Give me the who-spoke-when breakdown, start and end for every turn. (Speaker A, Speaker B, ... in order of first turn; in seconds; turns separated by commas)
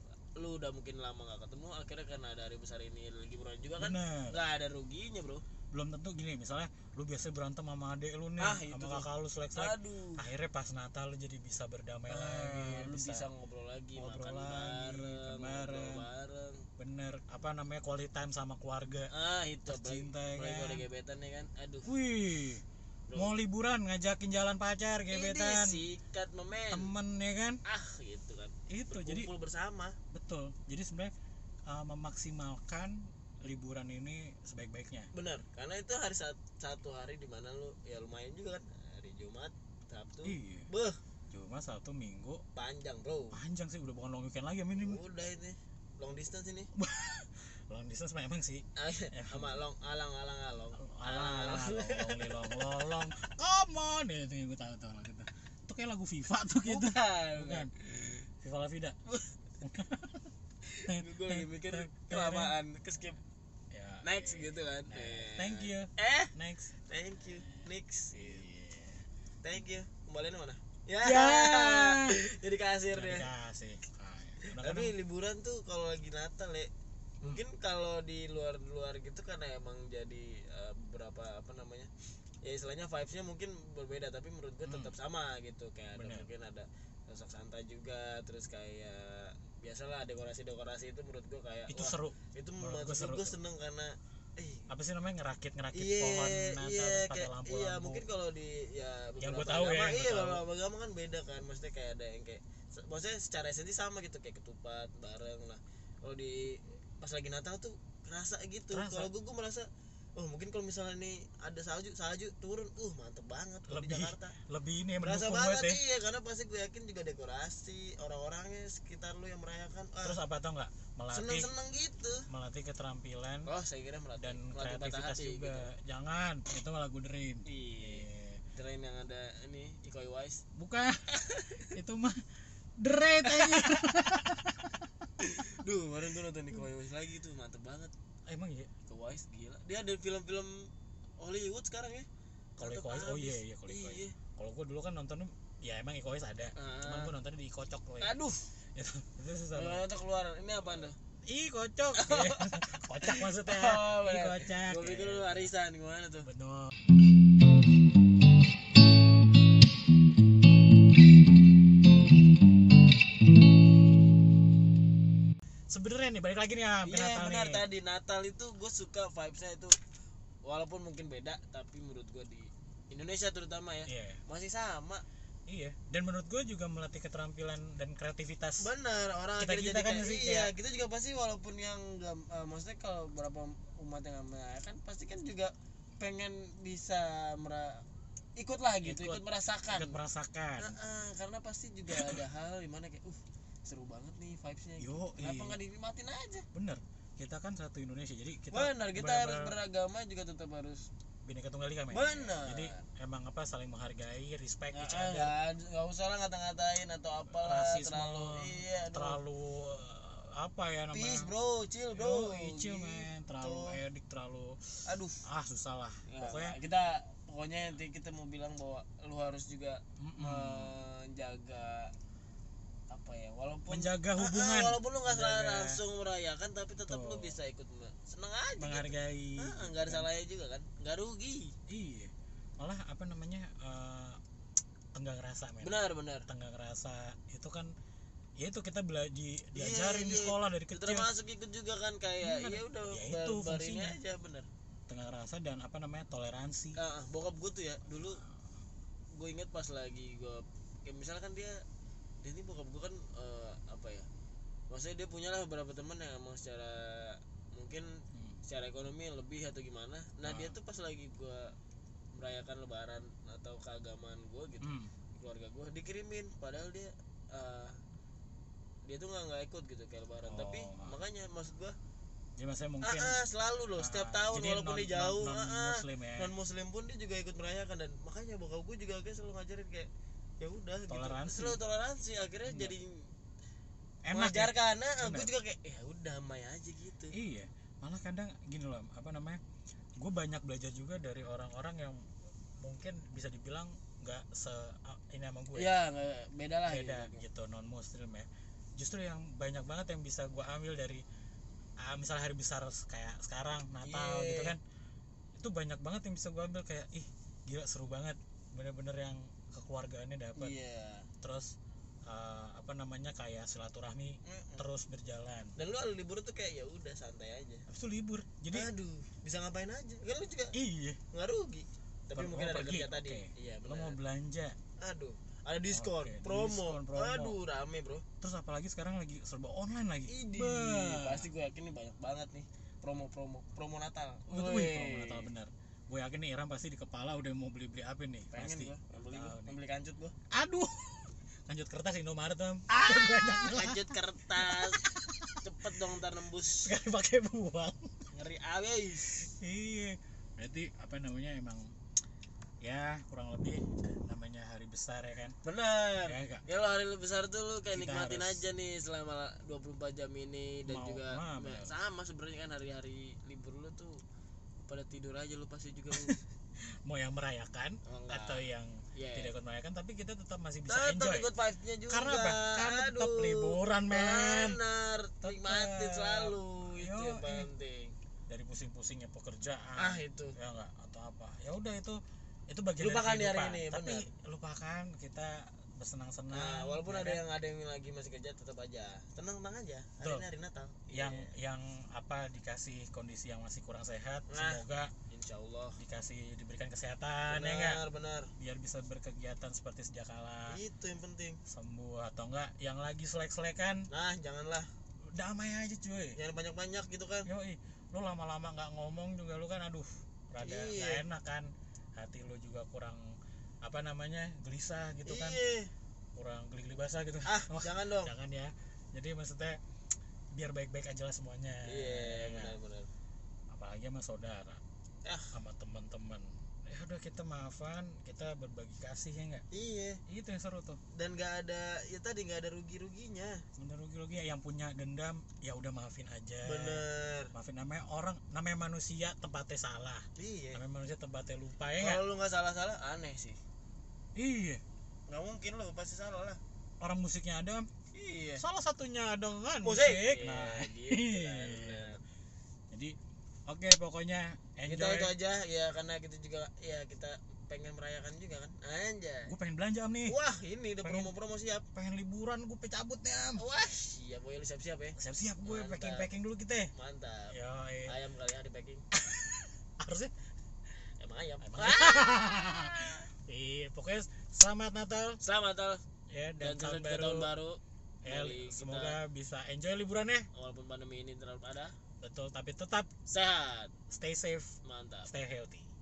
Speaker A: 0.3-5.4, Speaker B: 3.8-4.4, Speaker B: 5.7-13.3, Speaker A: 8.4-10.2, Speaker A: 12.1-16.7, Speaker B: 14.0-16.1, Speaker B: 16.8-19.1, Speaker A: 19.1-21.9, Speaker B: 19.7-20.8, Speaker B: 21.8-22.6, Speaker A: 23.1-23.4, Speaker B: 23.1-25.8, Speaker A: 25.1-26.9, Speaker B: 26.7-27.6, Speaker A: 27.6-30.0, Speaker B: 28.7-29.3, Speaker B: 30.1-31.1, Speaker B: 31.7-35.1, Speaker A: 35.1-41.0, Speaker B: 40.2-40.7, Speaker B: 41.3-42.4, Speaker A: 42.5-43.4, Speaker B: 43.3-45.0, Speaker A: 44.8-46.7, Speaker B: 46.8-49.6, Speaker A: 48.8-52.6, Speaker B: 50.8-57.7, Speaker A: 56.6-58.2, Speaker B: 58.4-59.0, Speaker B: 59.6-60.3, Speaker A: 60.6-63.2, Speaker B: 60.9-62.5, Speaker B: 63.7-66.7, Speaker A: 64.0-66.3, Speaker A: 66.9-68.4, Speaker B: 68.1-69.0, Speaker A: 69.4-73.3, Speaker B: 71.0-72.2, Speaker B: 72.9-74.9, Speaker A: 74.4-76.7, Speaker A: 77.2-81.9, Speaker A: 82.4-94.7, Speaker B: 84.6-84.9, Speaker B: 86.0-86.3, Speaker B: 91.7-93.4, Speaker B: 94.7-98.1, Speaker A: 95.7-114.3, Speaker B: 99.2-100.4, Speaker B: 108.7-109.1, Speaker B: 113.7-115.8, Speaker A: 115.0-120.2, Speaker B: 120.0-121.5, Speaker A: 121.1-122.2, Speaker B: 122.3-123.5, Speaker A: 123.4-125.7, Speaker B: 124.2-128.4, Speaker A: 127.5-130.4, Speaker B: 130.6-131.1, Speaker A: 131.1-131.7, Speaker B: 131.7-132.2, Speaker B: 132.8-134.8, Speaker A: 133.2-133.7, Speaker A: 135.2-137.9, Speaker B: 138.3-138.7, Speaker A: 138.9-142.1, Speaker B: 142.6-148.1, Speaker A: 142.6-144.2, Speaker A: 146.6-147.1, Speaker A: 148.0-148.5, Speaker B: 148.8-149.8, Speaker A: 149.5-150.9, Speaker B: 151.3-155.5, Speaker A: 151.9-152.4, Speaker A: 153.0-156.3, Speaker B: 156.2-156.7, Speaker B: 165.7-167.6, Speaker A: 166.8-169.8, Speaker A: 170.4-175.0, Speaker B: 173.9-174.2, Speaker B: 175.5-178.7, Speaker A: 178.6-187.8, Speaker B: 179.4-180.5, Speaker A: 188.4-190.0, Speaker B: 188.8-190.7, Speaker A: 190.6-196.4, Speaker B: 191.9-192.2, Speaker B: 194.8-195.6, Speaker B: 196.5-199.6, Speaker A: 198.5-200.9, Speaker B: 201.2-205.3, Speaker A: 201.9-202.8, Speaker A: 204.7-209.2, Speaker B: 207.3-211.3, Speaker A: 210.9-213.8, Speaker B: 211.9-216.6, Speaker A: 214.9-215.2, Speaker A: 216.1-221.9, Speaker B: 220.0-220.7, Speaker A: 222.9-231.5, Speaker B: 223.7-225.8, Speaker B: 226.8-227.3, Speaker B: 228.6-230.1, Speaker B: 231.7-234.2, Speaker B: 234.9-237.7, Speaker A: 235.6-236.3, Speaker B: 238.4-241.1, Speaker A: 239.6-244.5, Speaker B: 242.2-244.0, Speaker B: 244.9-246.8, Speaker A: 246.8-248.2, Speaker A: 249.1-251.6, Speaker A: 252.2-254.1, Speaker A: 254.7-261.5, Speaker B: 258.1-258.4, Speaker B: 260.2-260.5, Speaker A: 262.1-267.8, Speaker B: 264.6-264.9, Speaker A: 268.9-271.8, Speaker B: 270.2-270.9, Speaker B: 272.4-273.2, Speaker A: 272.8-279.9, Speaker B: 273.8-276.3, Speaker A: 280.4-283.0, Speaker B: 280.9-281.6, Speaker B: 282.4-282.8, Speaker B: 284.1-285.3, Speaker A: 284.1-287.1, Speaker B: 287.1-289.4, Speaker B: 290.0-292.1, Speaker B: 292.6-295.7, Speaker A: 295.6-297.2, Speaker B: 296.7-301.1, Speaker B: 301.8-304.6, Speaker A: 303.8-304.6, Speaker B: 305.4-310.6, Speaker A: 310.4-311.1, Speaker B: 311.2-315.6, Speaker A: 314.2-314.6, Speaker A: 315.6-317.6, Speaker B: 317.7-318.7, Speaker A: 318.5-320.6, Speaker B: 320.5-321.0, Speaker A: 321.1-324.0, Speaker B: 322.1-324.6, Speaker A: 324.8-328.1, Speaker B: 325.7-327.4, Speaker B: 328.2-331.3, Speaker A: 330.1-335.3, Speaker B: 334.3-339.6, Speaker A: 338.3-340.1, Speaker B: 340.3-343.9, Speaker A: 342.7-344.9, Speaker B: 344.4-345.4, Speaker A: 345.4-346.7, Speaker B: 346.6-347.9, Speaker A: 348.1-349.3, Speaker B: 349.2-351.7, Speaker B: 352.6-355.4, Speaker A: 355.4-364.0, Speaker B: 356.0-356.4, Speaker B: 357.7-358.4, Speaker B: 360.7-361.8, Speaker A: 364.7-366.2, Speaker B: 365.9-371.3, Speaker A: 367.9-369.3, Speaker A: 370.7-377.9, Speaker B: 371.9-374.6, Speaker B: 375.2-377.5, Speaker B: 378.3-387.2, Speaker A: 379.8-380.4, Speaker A: 382.8-384.1, Speaker A: 386.3-391.3, Speaker B: 390.0-390.3, Speaker B: 390.9-394.9, Speaker A: 394.3-395.8, Speaker B: 395.8-397.8, Speaker A: 397.3-398.3, Speaker B: 398.4-400.6, Speaker A: 400.5-401.4, Speaker B: 401.5-403.9, Speaker A: 403.9-404.7, Speaker B: 405.1-406.2, Speaker A: 406.2-407.3, Speaker B: 407.2-413.0, Speaker A: 410.4-411.1, Speaker B: 413.6-415.4, Speaker A: 415.1-415.7, Speaker B: 416.1-419.6, Speaker A: 417.2-418.1, Speaker B: 420.3-422.6, Speaker A: 421.7-422.9, Speaker B: 423.5-424.6, Speaker A: 425.1-425.3, Speaker B: 425.3-429.4, Speaker A: 429.5-430.0, Speaker B: 430.1-430.8, Speaker A: 430.9-433.4, Speaker B: 433.6-442.0, Speaker A: 436.4-437.3, Speaker A: 440.2-440.6, Speaker A: 441.8-443.4, Speaker B: 444.2-444.6, Speaker A: 445.1-446.4, Speaker B: 446.8-447.7, Speaker A: 447.9-448.4, Speaker B: 448.4-452.0, Speaker A: 449.6-452.0, Speaker B: 452.7-452.9, Speaker B: 453.5-455.1, Speaker A: 454.7-459.3, Speaker B: 459.3-460.2, Speaker A: 460.1-461.7, Speaker B: 460.8-461.1, Speaker B: 461.8-463.4, Speaker A: 463.4-466.1, Speaker B: 465.0-466.7, Speaker A: 466.7-467.3, Speaker B: 467.3-467.9, Speaker A: 467.9-468.9, Speaker B: 468.9-470.1, Speaker A: 471.0-473.0, Speaker B: 471.4-475.2, Speaker A: 475.2-475.8, Speaker B: 476.1-477.3, Speaker A: 476.4-479.0, Speaker B: 478.0-480.3, Speaker A: 480.3-481.8, Speaker B: 482.0-482.9, Speaker A: 483.1-483.8, Speaker B: 483.9-484.5, Speaker A: 484.6-485.1, Speaker B: 485.1-485.7